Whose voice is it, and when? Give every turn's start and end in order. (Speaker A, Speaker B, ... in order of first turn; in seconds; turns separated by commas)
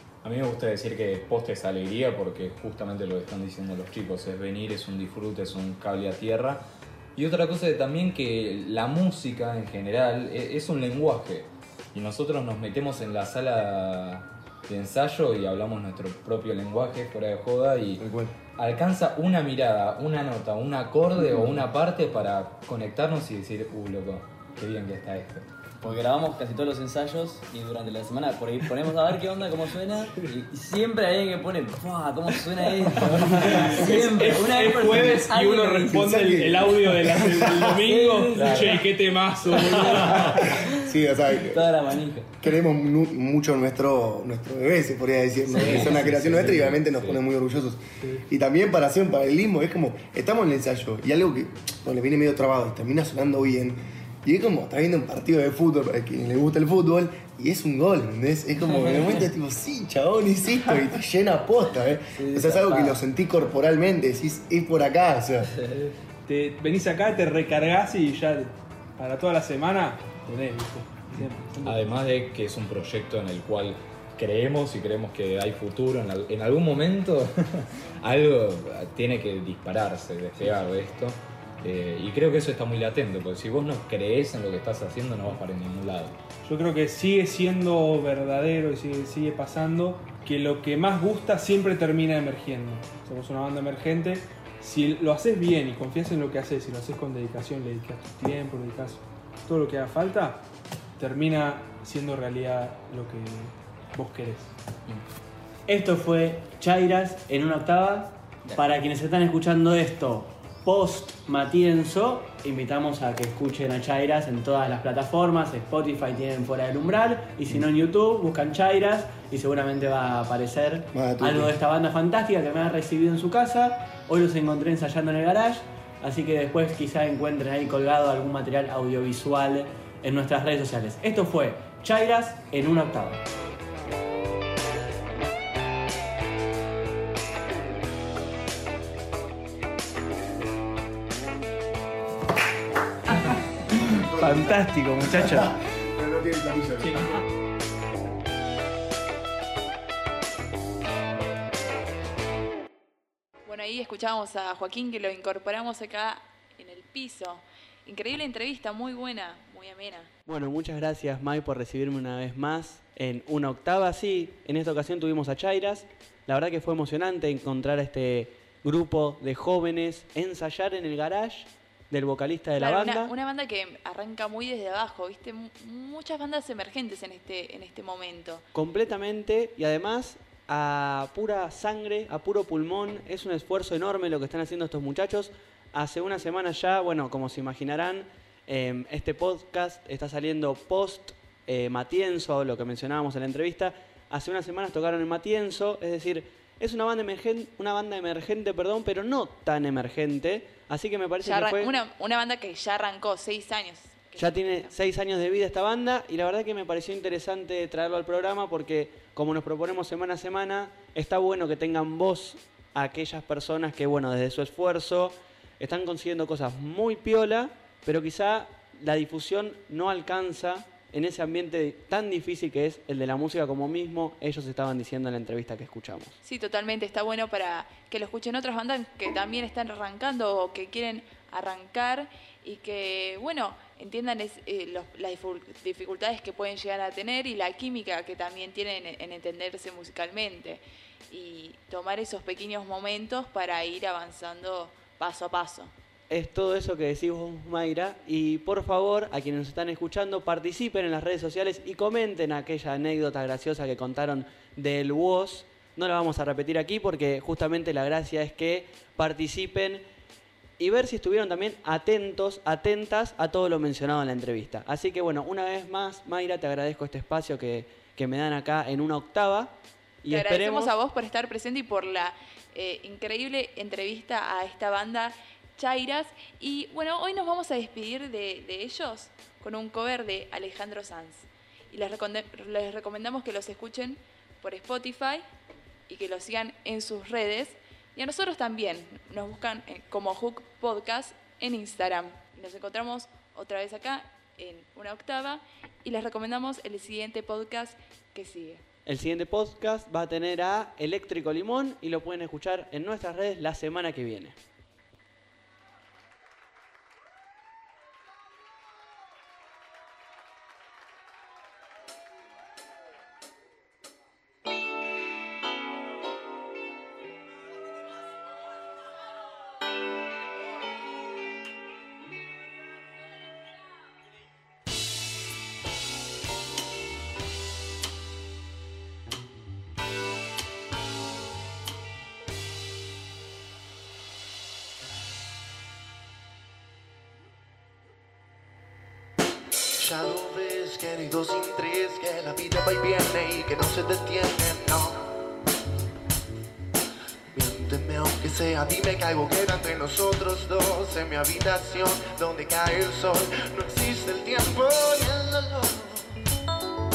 Speaker A: 0.2-18.1, Speaker B: 18.0-18.3, Speaker A: 18.6-25.5, Speaker C: 25.8-36.3, Speaker D: 33.4-40.6, Speaker B: 35.9-37.8, Speaker C: 37.7-38.9, Speaker C: 39.5-42.3, Speaker B: 40.3-41.9, Speaker B: 42.4-65.5, Speaker C: 45.5-46.6, Speaker A: 45.5-47.2, Speaker D: 48.0-48.2, Speaker C: 62.2-63.0, Speaker C: 65.6-65.9, Speaker D: 66.2-71.9, Speaker A: 71.7-86.2, Speaker D: 86.4-100.5, Speaker D: 101.0-104.5, Speaker E: 105.7-133.2, Speaker B: 120.9-121.5, Speaker B: 143.8-147.2, Speaker E: 143.9-145.5, Speaker F: 153.5-160.1, Speaker E: 160.3-173.1, Speaker F: 172.6-178.4, Speaker E: 178.6-201.7, Speaker F: 201.2-204.8, Speaker E: 204.2-226.2, Speaker F: 226.2-245.7, Speaker E: 246.1-259.9, Speaker E: 260.6-270.7, Speaker F: 270.1-285.2, Speaker F: 285.9-298.6, Speaker E: 298.9-304.4, Speaker G: 339.8-345.1, Speaker G: 347.3-356.2